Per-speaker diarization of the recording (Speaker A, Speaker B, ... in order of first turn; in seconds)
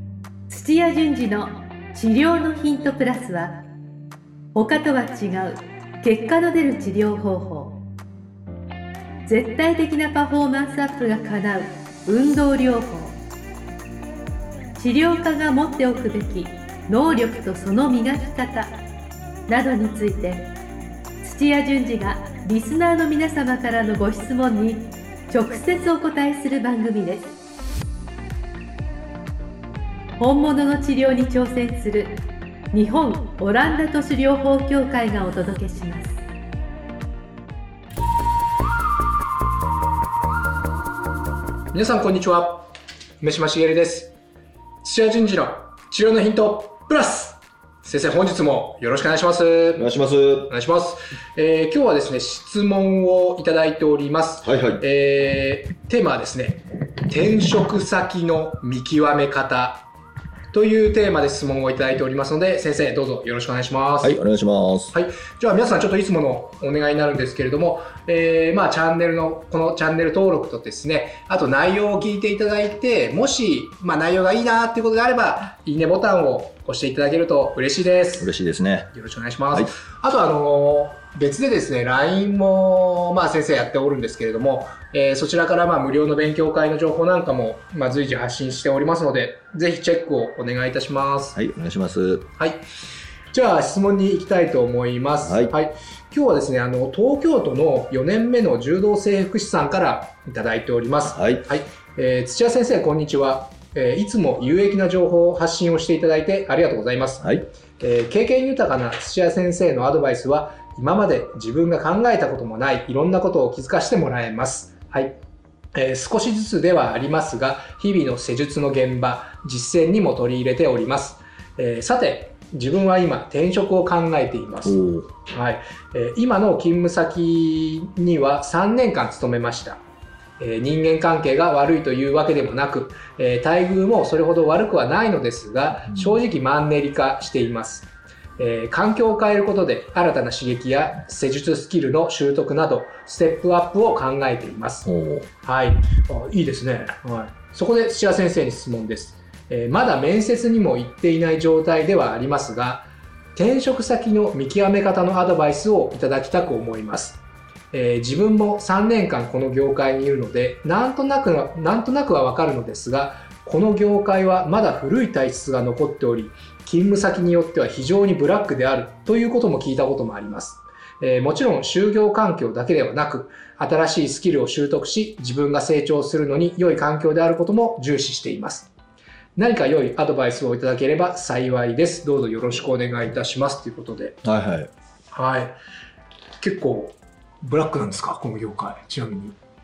Speaker A: 0.5-3.6, 4.5-7.8, 9.2-13.2, 14.7-18.7, 19.5-20.5, 21.2-27.3, 30.2-32.1, 32.7-36.2
Speaker B: 41.7-44.1, 44.8-49.9, 50.5-59.9, 60.5-64.2, 64.9-78.3, 78.9-91.4, 92.4-92.6, 93.3-115.2, 115.7-129.8, 130.4-144.9, 145.4-157.2, 157.7-178.7, 179.3-184.2, 185.1-185.6, 186.4-189.4
Speaker C: 49.8-50.5, 54.4-54.8, 64.0-64.9, 78.2-78.9, 91.3-92.3, 95.2-95.5, 101.0-101.5, 107.2-107.4, 124.6-125.1, 144.8-145.3, 184.2-184.7